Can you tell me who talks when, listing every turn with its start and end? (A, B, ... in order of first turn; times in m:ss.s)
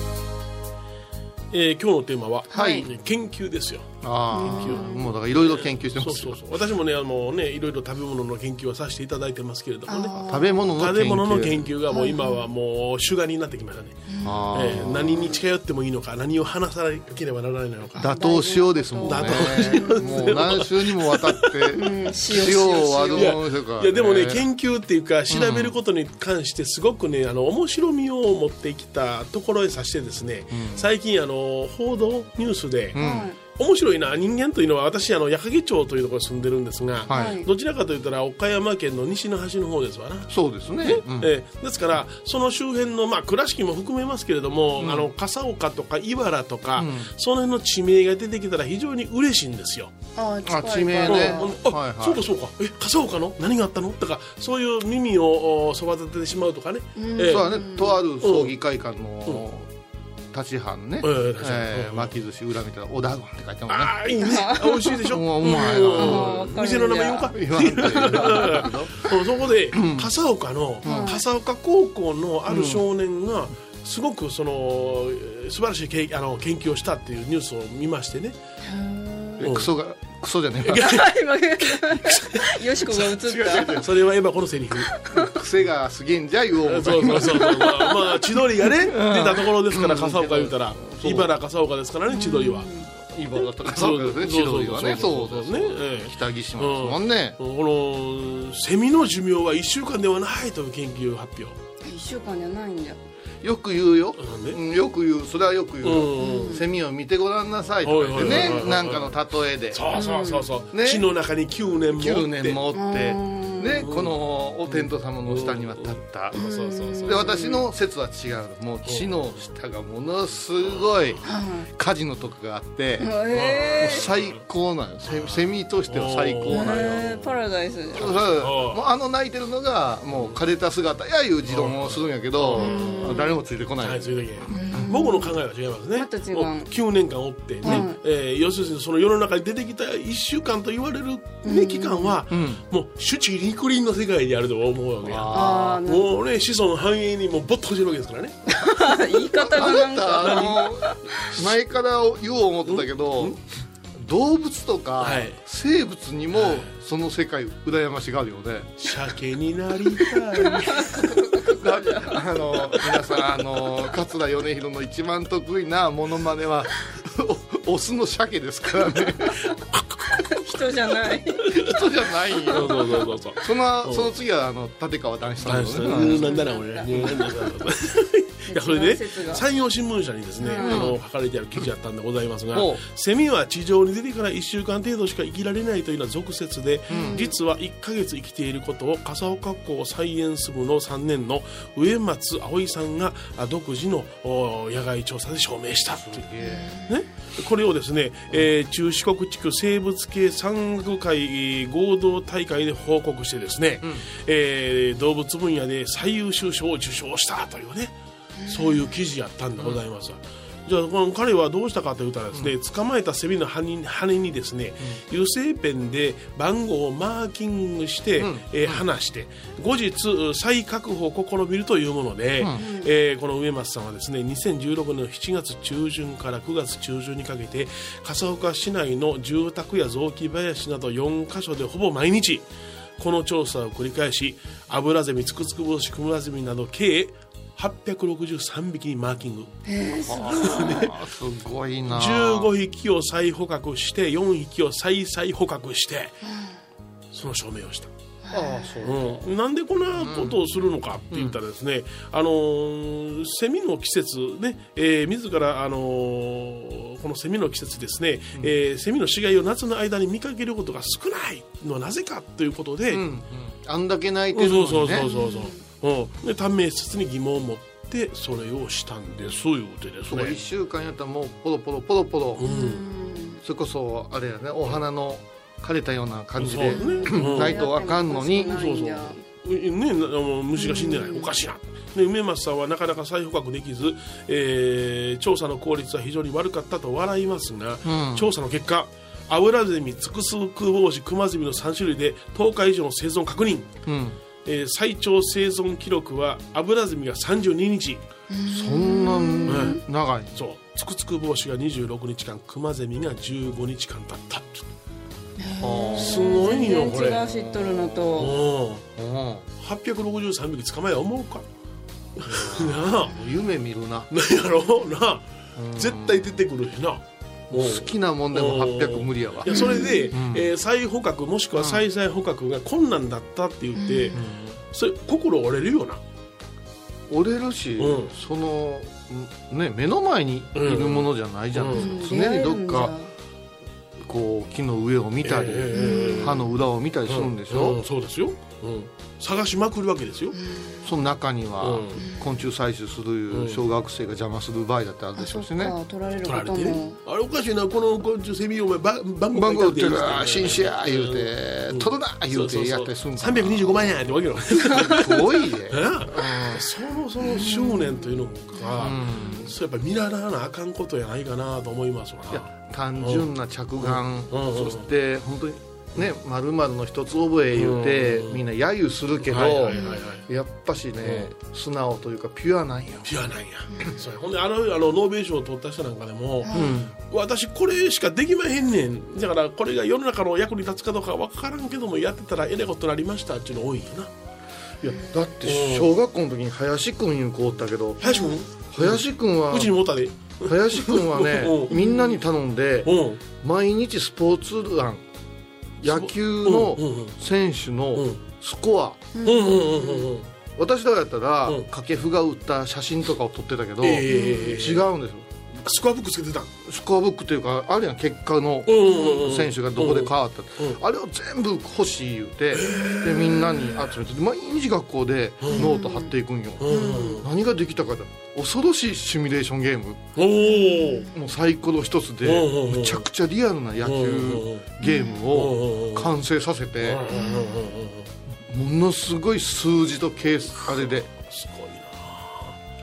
0:01.5-0:18.1 A
0:02.5-0:02.9 B
0:02.5-0:02.9 C
0:04.0-0:06.4 C
0:04.3-0:05.1 B
0:09.9-0:10.6 B
0:10.2-0:11.7 C
0:11.9-0:12.5 B
0:14.1-0:14.4 B
0:14.2-0:15.4 C
0:18.0-0:24.4 C
0:18.0-0:20.4 B
0:19.0-0:21.9 A
0:21.7-0:23.4 B
0:23.2-0:49.9 A
0:25.3-0:25.8 C
0:30.5-0:30.9 C
0:32.9-0:33.3 C
0:33.0-0:33.4 B
0:37.1-0:37.4 C
0:37.1-0:37.5 B
0:40.3-0:41.3 C
0:44.8-0:45.1 C
0:46.8-0:47.1 C
0:50.2-0:51.6 B
0:50.4-0:52.3 C
0:51.0-0:57.5 A
0:57.0-0:58.0 B
0:57.2-0:59.7 C
0:58.2-0:58.6 A
1:00.3-1:04.0 C
1:01.0-1:02.1 A
1:03.7-1:18.4 A
1:04.2-1:07.3 B
1:05.1-1:06.5 C
1:07.3-1:09.1 C
1:09.7-1:10.1 C
1:10.8-1:11.2 C
1:10.8-1:11.2 B
1:12.5-1:12.8 C
1:18.6-1:19.5 B
1:19.4-1:21.0 C
1:19.4-1:19.7 A
1:20.6-1:25.0 A
1:20.8-1:23.7 B
1:23.2-1:23.9 C
1:25.1-1:27.7 C
1:26.6-1:32.7 A
1:27.4-1:27.9 B
1:28.8-1:31.3 C
1:32.1-1:32.9 B
1:33.1-1:37.4 C
1:33.6-1:41.6 A
1:41.8-1:43.0 B
1:43.4-1:50.0 C
1:44.2-1:44.6 A
1:45.8-1:46.6 A
1:46.2-1:46.6 B
1:47.8-1:49.2 A
1:49.7-1:52.6 A
1:49.9-1:50.5 B
1:50.7-1:51.1 C
1:51.9-1:56.4 C
1:52.7-1:53.9 B
1:53.8-1:54.2 A
1:54.7-1:57.3 A
1:56.3-1:57.6 B
1:57.0-2:01.2 C
1:58.9-1:59.1 A
2:00.8-2:01.2 A
2:01.2-2:01.7 B
2:01.8-2:07.0 C
2:03.0-2:04.1 B
2:03.3-2:04.4 A
2:05.0-2:07.3 A
2:06.5-2:08.1 B
2:07.9-2:08.8 A
2:08.0-2:14.8 C
2:11.5-2:13.2 A
2:12.6-2:13.4 B
2:13.8-2:28.7 A
2:14.5-2:15.3 B
2:16.0-2:16.7 B
2:17.6-2:18.0 B
2:21.4-2:22.2 B
2:22.3-2:22.6 C
2:25.0-2:25.8 C
2:25.3-2:26.1 B
2:28.5-2:30.9 B
2:29.3-2:33.4 C
2:30.2-2:30.5 A
2:32.6-2:33.4 A
2:34.0-2:38.8 C
2:35.0-2:35.4 A
2:36.3-2:36.8 A
2:38.8-2:41.1 A
2:40.7-2:42.2 B
2:41.4-2:49.4 C
2:42.7-2:43.4 A
2:49.4-2:50.1 A
2:50.1-2:51.5 B
2:51.5-2:57.2 C
2:52.5-2:54.1 A
2:55.4-3:16.2 A
2:55.9-2:57.1 B
2:58.5-2:59.4 B
3:00.4-3:00.9 B
3:00.6-3:01.0 C
3:02.5-3:02.8 C
3:06.9-3:07.3 C
3:06.9-3:07.3 B
3:15.9-3:16.8 C
3:16.4-3:16.9 B
3:16.9-3:27.9 A
3:23.8-3:24.1 C
3:28.4-3:28.9 B
3:28.5-3:52.5 A
3:38.2-3:38.8 C
3:42.4-3:42.7 C
3:42.6-3:42.9 B
3:53.0-3:59.6 A
3:59.7-4:00.8 B
4:00.0-4:02.5 C
4:00.3-4:00.9 A
4:01.9-4:06.2 A
4:06.2-4:06.6 B
4:07.1-4:07.9 A
4:08.2-4:08.8 B
4:08.3-4:09.3 C
4:08.8-4:23.1 A
4:10.0-4:10.4 C
4:11.1-4:11.4 C
4:22.9-4:25.1 C
4:24.3-4:30.4 A
4:25.0-4:25.6 B
4:30.1-4:32.5 C
4:32.4-4:32.8 A
4:32.4-4:33.4 B
4:33.4-4:39.0 C
4:36.4-4:37.6 A
4:36.7-4:39.2 B
4:38.5-4:53.7 A
4:40.6-4:41.3 B
4:47.8-4:48.3 C
4:53.9-4:54.2 C
4:54.4-4:58.0 A
4:58.3-4:59.8 B
4:58.5-5:00.4 C
4:59.5-4:59.8 A
5:00.3-5:04.7 A
5:05.4-5:08.4 B
5:05.6-5:08.1 C
5:06.0-5:07.3 A
5:08.2-5:08.9 A
5:09.0-5:09.5 C
5:09.6-5:11.5 A
5:12.2-5:13.2 A
5:12.2-5:14.1 C
5:14.1-5:24.2 A
5:15.6-5:16.3 C
5:17.5-5:20.5 C
5:19.5-5:20.1 B
5:21.5-5:21.8 C
5:23.8-5:24.2 B
5:24.1-5:24.6 C
5:24.7-5:26.0 A
5:27.1-5:33.0 C
5:27.8-5:28.1 A
5:30.6-5:31.9 A
5:31.7-5:33.1 B
5:34.0-5:37.8 C
5:35.2-5:36.4 A
5:35.7-5:36.4 B
5:37.1-5:40.4 A
5:40.3-5:40.8 B
5:40.8-5:45.8 C
5:41.6-5:42.0 A
5:42.0-5:42.4 B
5:43.3-5:43.6 A
5:45.2-5:47.0 B
5:46.2-6:04.9 A
5:49.3-5:54.1 C
5:54.8-5:56.7 C
5:57.3-5:58.1 B
5:58.8-5:59.5 C
6:02.3-6:13.2 C
6:07.6-6:08.4 A
6:09.2-6:10.2 A
6:09.7-6:10.0 B
6:11.0-6:11.3 A
6:13.0-6:24.1 A
6:16.4-6:16.8 B
6:16.5-6:17.0 C
6:24.8-6:29.8 C
6:25.4-6:25.9 A
6:28.0-6:31.8 A
6:28.0-6:28.3 B
6:30.4-6:35.0 C
6:31.7-6:32.2 B
6:32.8-6:33.2 A
6:35.8-6:39.1 C
6:35.8-6:37.2 A
6:38.0-6:38.2 A
6:39.2-6:40.1 B
6:39.2-6:40.3 A
6:40.6-6:45.3 C
6:43.8-6:44.9 A
6:44.1-6:44.6 B
6:45.6-6:46.5 A
6:46.6-7:00.1 C
6:48.7-6:50.8 A
6:48.8-6:49.2 B
6:52.5-6:53.9 A
6:55.4-6:55.7 A
6:55.5-6:56.1 B
6:56.6-6:57.3 A
6:56.7-6:57.2 B
7:00.2-7:01.1 A
7:00.5-7:01.1 B
7:01.1-7:07.1 C
7:02.2-7:03.1 A
7:03.8-7:06.2 A
7:04.8-7:05.2 B
7:06.8-7:08.1 A
7:07.1-7:07.6 B
7:08.5-7:11.1 C
7:10.7-7:12.6 A